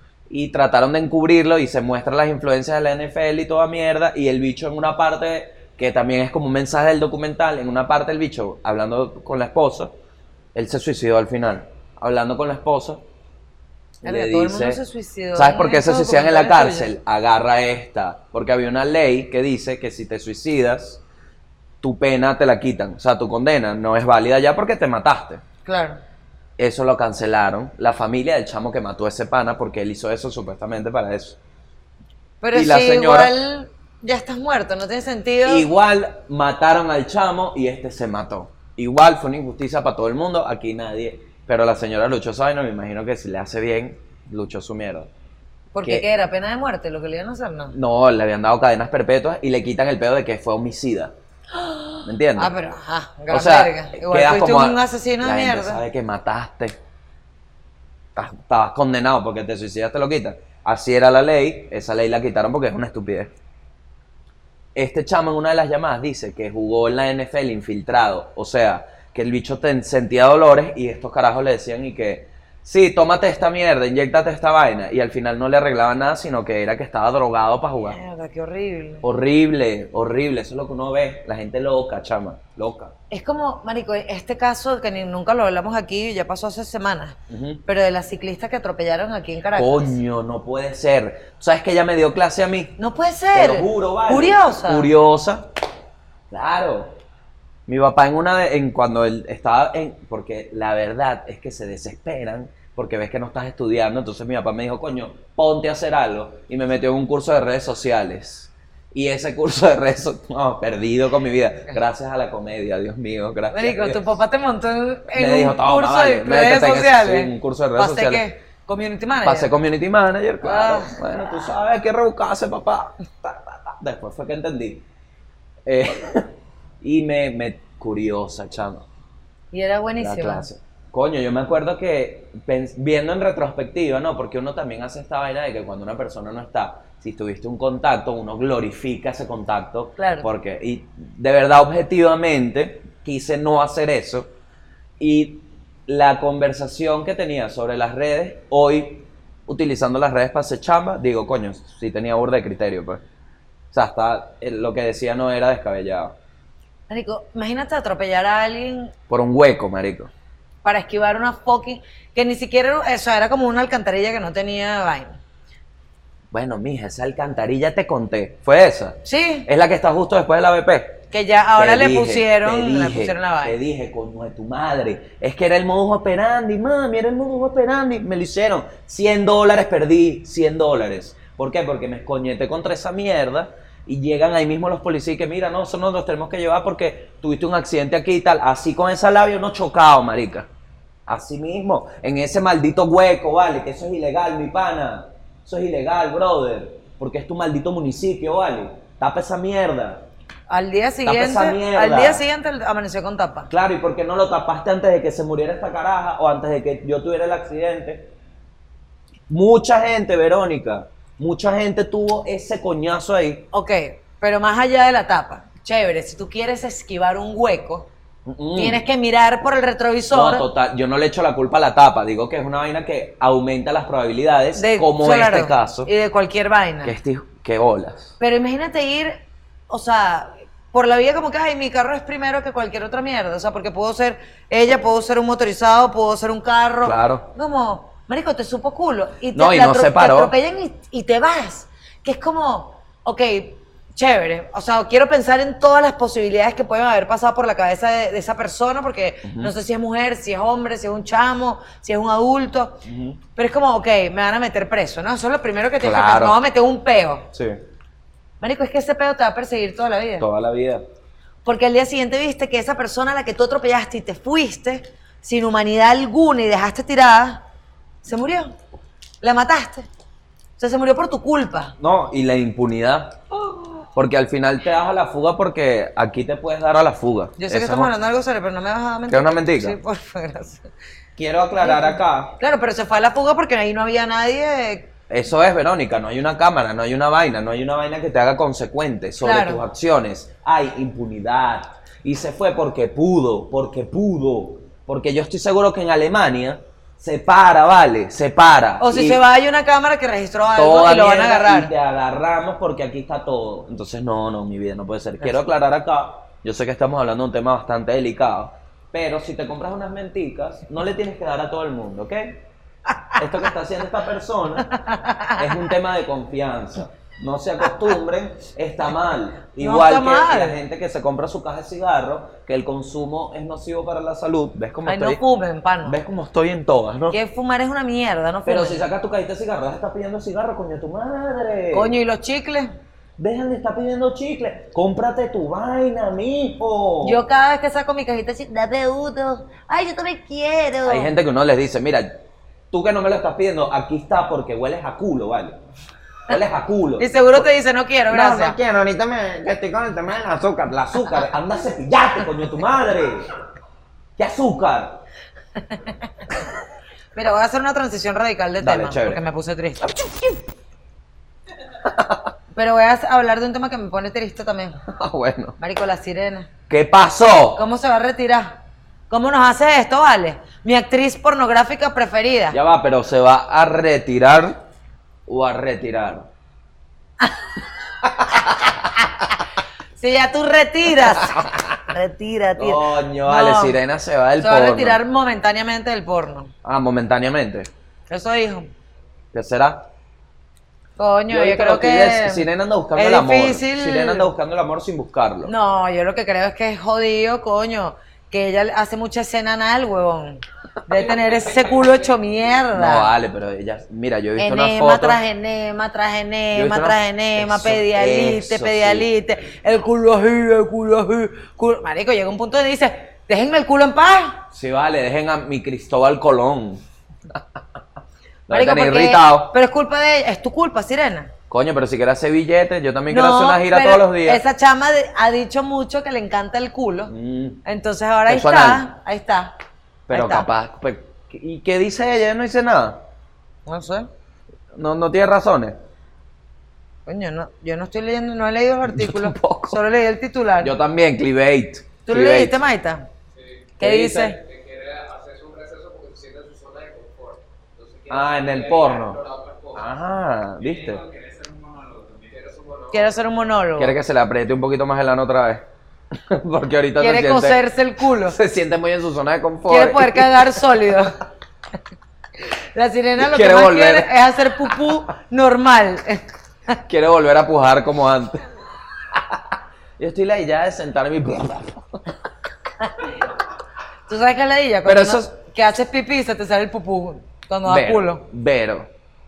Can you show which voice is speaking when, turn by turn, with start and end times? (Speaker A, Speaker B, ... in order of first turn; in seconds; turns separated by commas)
Speaker A: 0.3-10.0, Speaker A: 10.6-13.1, Speaker A: 14.0-14.8, Speaker B: 14.0-16.9, Speaker A: 15.3-21.0, Speaker A: 21.8-25.4, Speaker B: 25.7-26.0, Speaker A: 26.6-31.4, Speaker B: 32.4-35.7, Speaker A: 32.5-33.3, Speaker A: 35.5-45.1, Speaker B: 45.7-47.8, Speaker A: 47.7-51.1, Speaker B: 51.6-55.8, Speaker A: 52.0-52.5, Speaker A: 53.3-56.8, Speaker A: 58.1-63.3, Speaker A: 64.8-78.0, Speaker B: 77.9-79.0, Speaker A: 79.0-82.9, Speaker B: 83.1-90.0, Speaker A: 87.3-87.6, Speaker A: 89.6-92.8, Speaker B: 92.8-94.9, Speaker A: 93.3-95.5, Speaker A: 96.3-97.0, Speaker A: 97.7-114.1, Speaker B: 113.5-119.5, Speaker A: 115.2-118.2, Speaker A: 119.2-124.8, Speaker B: 120.4-121.0, Speaker A: 125.7-128.9, Speaker B: 129.5-130.5, Speaker A: 130.0-144.3, Speaker B: 140.0-140.3, Speaker A: 145.0-153.0, Speaker A: 153.7-156.1, Speaker B: 156.9-158.9, Speaker A: 159.1-160.1, Speaker B: 160.6-165.2, Speaker A: 166.3-171.0, Speaker B: 169.1-169.5, Speaker B: 171.1-173.6, Speaker A: 171.6-190.5, Speaker A: 191.1-200.0, Speaker B: 200.5-203.5, Speaker A: 201.1-202.2, Speaker A: 203.5-208.1, Speaker A: 209.3-213.5, Speaker B: 213.5-217.9, Speaker A: 218.3-218.8, Speaker B: 218.6-220.5, Speaker A: 220.1-225.9, Speaker B: 224.6-226.9, Speaker A: 226.8-228.1, Speaker B: 228.2-252.8, Speaker A: 236.8-237.3, Speaker A: 239.3-240.3, Speaker A: 249.2-249.5, Speaker A: 252.8-253.2, Speaker B: 253.4-257.3, Speaker A: 255.8-256.4, Speaker A: 257.3-257.6, Speaker B: 258.4-260.3, Speaker A: 260.2-260.8, Speaker B: 261.4-267.4, Speaker B: 268.0-268.6, Speaker B: 269.2-269.9, Speaker B: 270.6-271.8, Speaker A: 271.8-273.2, Speaker A: 273.9-277.9, Speaker B: 277.4-280.7, Speaker A: 279.1-279.8, Speaker A: 281.2-282.4, Speaker B: 281.6-284.9, Speaker A: 285.1-299.2, Speaker B: 289.2-289.6, Speaker B: 298.8-301.7, Speaker A: 300.6-312.5, Speaker A: 313.2-314.7, Speaker B: 314.7-315.5, Speaker A: 315.4-325.2, Speaker B: 319.6-320.6, Speaker B: 324.9-326.0, Speaker A: 325.9-327.2, Speaker B: 327.1-328.9, Speaker A: 328.4-332.0, Speaker B: 331.7-332.7, Speaker A: 333.2-337.2, Speaker B: 337.0-341.1, Speaker A: 340.9-345.6, Speaker A: 346.3-347.5, Speaker B: 347.0-348.6, Speaker A: 348.1-353.3, Speaker A: 354.2-355.0, Speaker B: 355.7-356.0, Speaker B: 357.1-359.9, Speaker A: 358.6-359.2, Speaker A: 359.8-360.4, Speaker A: 361.8-362.3, Speaker B: 362.5-364.8, Speaker A: 364.9-365.6, Speaker B: 365.6-366.5, Speaker A: 366.7-367.6, Speaker B: 367.6-368.6, Speaker B: 369.1-372.6, Speaker A: 372.5-374.6, Speaker A: 375.3-376.3, Speaker A: 378.0-378.8, Speaker B: 380.0-383.8, Speaker A: 381.1-381.4, Speaker A: 382.6-385.0, Speaker B: 384.4-386.5, Speaker A: 386.6-387.7, Speaker B: 388.1-388.7, Speaker A: 389.3-389.9, Speaker B: 391.0-394.3, Speaker A: 391.3-395.5, Speaker B: 395.4-403.1, Speaker A: 402.7-405.2, Speaker B: 404.4-414.4, Speaker A: 406.5-409.1, Speaker A: 414.5-417.6, Speaker A: 418.5-419.5, Speaker B: 418.5-421.3, Speaker A: 421.5-424.4, Speaker B: 423.1-427.1, Speaker A: 427.1-427.6, Speaker B: 427.6-429.6, Speaker A: 428.3-428.9, Speaker A: 430.1-433.0, Speaker B: 430.1-430.5, Speaker B: 433.7-434.1, Speaker A: 434.7-435.8, Speaker B: 437.1-440.7, Speaker A: 438.9-439.8, Speaker A: 440.6-442.6, Speaker B: 442.1-443.1, Speaker C: 443.3-449.9, Speaker B: 443.8-444.4, Speaker A: 443.8-444.4, Speaker A: 448.1-449.2, Speaker A: 449.8-451.0, Speaker C: 450.6-453.2, Speaker B: 452.9-454.0, Speaker A: 453.8-457.6, Speaker B: 457.0-458.4, Speaker A: 458.2-460.6, Speaker B: 459.7-461.2, Speaker B: 462.7-466.8, Speaker A: 463.2-464.1, Speaker A: 466.9-468.5, Speaker A: 469.1-469.4, Speaker A: 470.0-472.0, Speaker B: 472.8-473.1, Speaker B: 474.1-478.2, Speaker A: 474.9-475.3, Speaker A: 477.6-478.9